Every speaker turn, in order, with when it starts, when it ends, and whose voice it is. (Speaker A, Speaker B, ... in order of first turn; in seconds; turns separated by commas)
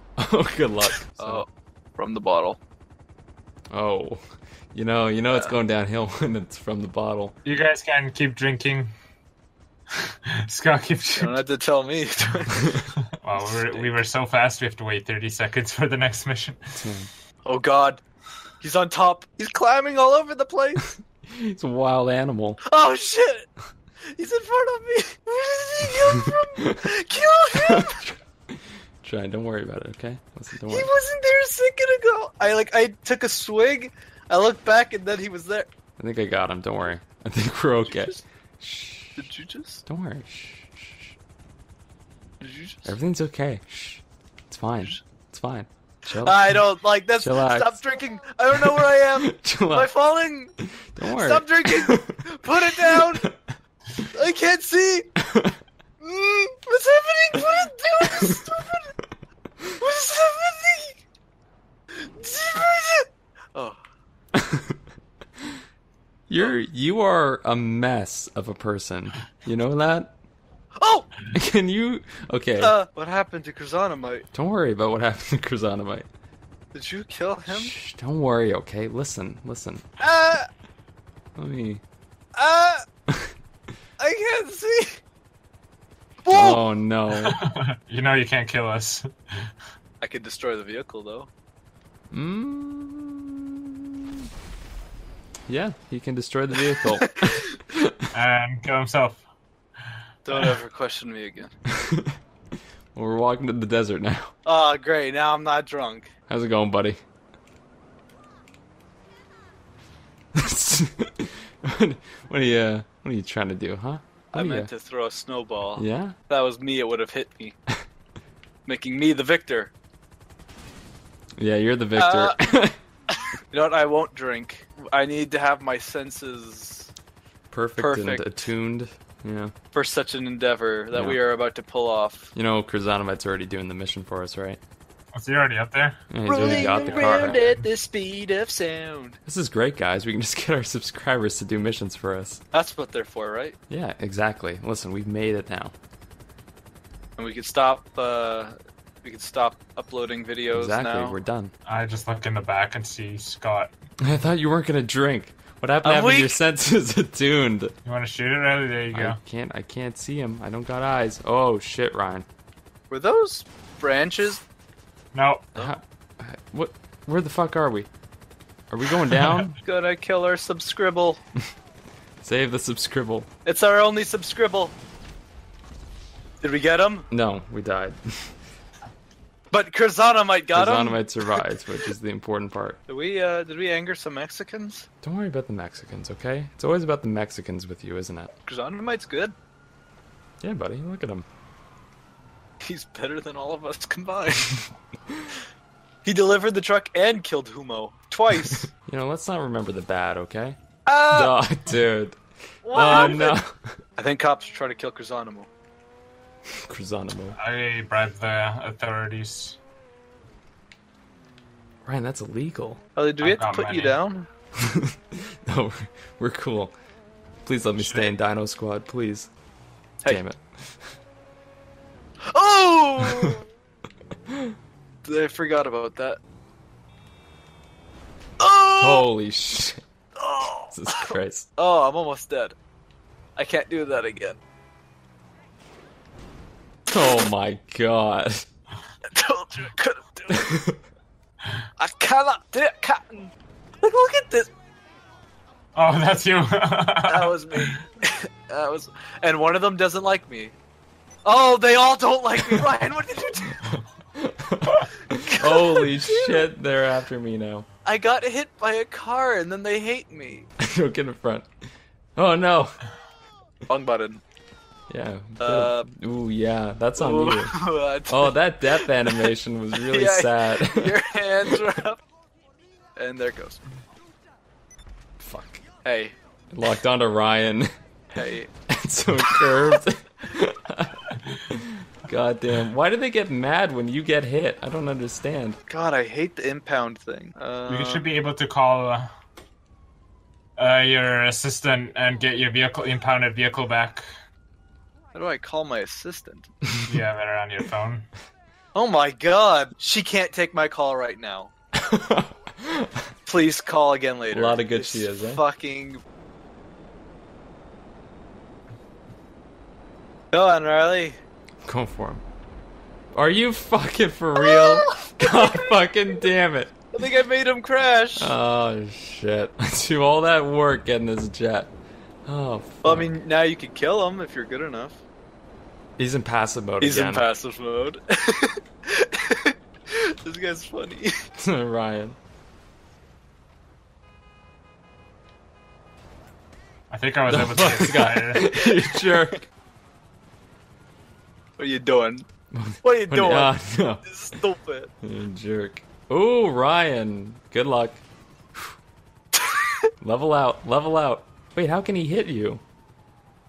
Speaker A: 0.2-1.4, Speaker B: 1.2-1.4, Speaker B: 2.0-2.6, Speaker A: 3.7-4.2, Speaker A: 4.7-7.3, Speaker B: 5.3-5.5, Speaker C: 7.4-8.9, Speaker C: 10.0-11.3, Speaker B: 11.2-12.8, Speaker C: 13.2-16.9, Speaker B: 13.4-14.0, Speaker A: 16.8-17.1, Speaker B: 17.4-18.0, Speaker B: 18.6-20.9, Speaker A: 21.3-22.6, Speaker B: 22.6-23.5, Speaker B: 24.1-28.1, Speaker A: 26.1-26.8, Speaker A: 27.6-30.9, Speaker B: 30.7-35.7, Speaker A: 36.0-39.3, Speaker B: 37.9-38.2, Speaker B: 39.2-39.8, Speaker A: 39.9-41.1, Speaker B: 42.4-42.9, Speaker A: 42.9-47.8, Speaker B: 46.1-50.5, Speaker A: 48.7-49.9, Speaker A: 50.6-53.5, Speaker B: 51.1-53.3, Speaker B: 54.1-55.1, Speaker A: 55.2-55.6, Speaker B: 56.0-58.9, Speaker B: 59.8-61.0, Speaker B: 62.0-63.8, Speaker A: 64.3-64.8, Speaker A: 66.3-70.1, Speaker B: 70.8-71.1, Speaker A: 71.3-72.8, Speaker B: 72.6-74.2, Speaker A: 74.3-76.1, Speaker B: 76.7-77.7, Speaker A: 77.5-79.8, Speaker B: 80.0-80.5, Speaker A: 81.4-81.8, Speaker B: 82.3-82.8, Speaker B: 84.0-85.0, Speaker B: 86.2-86.6, Speaker A: 86.3-87.4, Speaker C: 87.2-89.1, Speaker B: 90.0-91.3, Speaker A: 92.1-94.1, Speaker A: 95.5-98.1, Speaker B: 97.2-97.5, Speaker C: 98.1-99.2, Speaker B: 100.3-101.5, Speaker A: 101.8-102.1, Speaker A: 102.9-104.3, Speaker B: 104.4-106.1, Speaker A: 106.3-107.0, Speaker A: 110.3-114.7, Speaker B: 114.3-117.6, Speaker A: 115.8-116.2, Speaker B: 118.6-119.7, Speaker A: 121.4-122.8, Speaker B: 122.0-122.4, Speaker B: 123.5-126.9, Speaker A: 127.5-129.5, Speaker B: 127.8-128.5, Speaker B: 129.7-132.3, Speaker A: 130.9-131.2, Speaker A: 132.3-134.6, Speaker C: 135.1-137.7, Speaker A: 136.1-137.4, Speaker B: 136.2-139.2, Speaker A: 139.2-142.4, Speaker B: 142.5-143.6, Speaker A: 143.7-145.7, Speaker B: 147.2-151.2, Speaker A: 150.5-151.5, Speaker C: 151.7-153.7, Speaker A: 154.0-157.7, Speaker B: 155.8-156.4, Speaker C: 157.8-159.2, Speaker A: 158.9-162.2, Speaker B: 162.9-164.4, Speaker C: 165.1-165.5, Speaker A: 165.6-167.9, Speaker A: 168.7-169.6, Speaker B: 169.6-171.2, Speaker A: 172.2-173.3, Speaker B: 173.4-174.7, Speaker B: 176.4-177.1, Speaker A: 177.1-178.3, Speaker B: 179.5-181.3, Speaker A: 180.5-182.8, Speaker B: 182.9-184.9, Speaker A: 185.0-188.3, Speaker B: 188.4-189.3, Speaker A: 190.4-191.2, Speaker B: 192.6-194.6, Speaker B: 196.0-198.7, Speaker A: 198.4-200.6, Speaker B: 200.8-201.4, Speaker A: 201.1-202.2, Speaker B: 202.6-203.4, Speaker A: 202.7-203.6, Speaker B: 204.0-205.5, Speaker A: 206.7-207.4, Speaker C: 207.3-209.6, Speaker A: 211.8-212.8, Speaker B: 212.9-214.3, Speaker C: 213.2-214.0, Speaker A: 214.7-216.7, Speaker A: 217.4-219.3, Speaker C: 217.8-218.1, Speaker A: 220.1-220.8, Speaker B: 222.3-223.4, Speaker B: 225.0-226.2, Speaker B: 228.4-229.1, Speaker A: 228.8-229.8, Speaker B: 230.2-232.5, Speaker A: 230.7-231.4, Speaker B: 233.4-234.4, Speaker A: 236.9-238.5, Speaker B: 239.1-240.4, Speaker A: 240.3-240.8, Speaker B: 241.8-244.5, Speaker C: 245.7-247.8, Speaker B: 247.1-250.5, Speaker B: 251.2-253.6, Speaker A: 254.2-257.7, Speaker B: 255.3-256.4, Speaker B: 257.8-260.5, Speaker A: 260.6-261.5, Speaker A: 262.1-262.8, Speaker B: 263.7-264.2, Speaker A: 264.9-267.6, Speaker B: 265.4-265.9, Speaker B: 267.0-269.3, Speaker A: 268.1-270.9, Speaker B: 269.8-272.0, Speaker B: 272.9-273.6, Speaker A: 275.2-275.6, Speaker B: 275.8-276.1, Speaker A: 276.5-277.7, Speaker B: 278.1-278.5, Speaker A: 278.7-285.6, Speaker B: 279.4-279.8, Speaker B: 285.7-288.2, Speaker C: 287.7-289.1, Speaker C: 290.6-294.1, Speaker B: 295.1-296.5, Speaker C: 296.9-298.1, Speaker B: 298.7-301.5, Speaker A: 301.7-302.9, Speaker B: 303.2-306.0, Speaker A: 304.3-305.4, Speaker B: 310.3-311.2, Speaker A: 311.6-312.2, Speaker A: 313.1-316.7, Speaker B: 314.4-315.7, Speaker B: 316.9-318.3, Speaker A: 318.2-321.7, Speaker A: 322.2-323.1, Speaker B: 322.8-325.0, Speaker A: 326.0-327.2, Speaker B: 326.8-331.1, Speaker A: 331.4-332.2, Speaker C: 336.9-338.4, Speaker A: 337.3-339.5, Speaker B: 338.4-339.2, Speaker B: 341.6-342.2, Speaker A: 342.5-344.4, Speaker B: 342.8-344.9, Speaker A: 345.0-348.0, Speaker B: 349.4-349.7, Speaker A: 350.0-352.6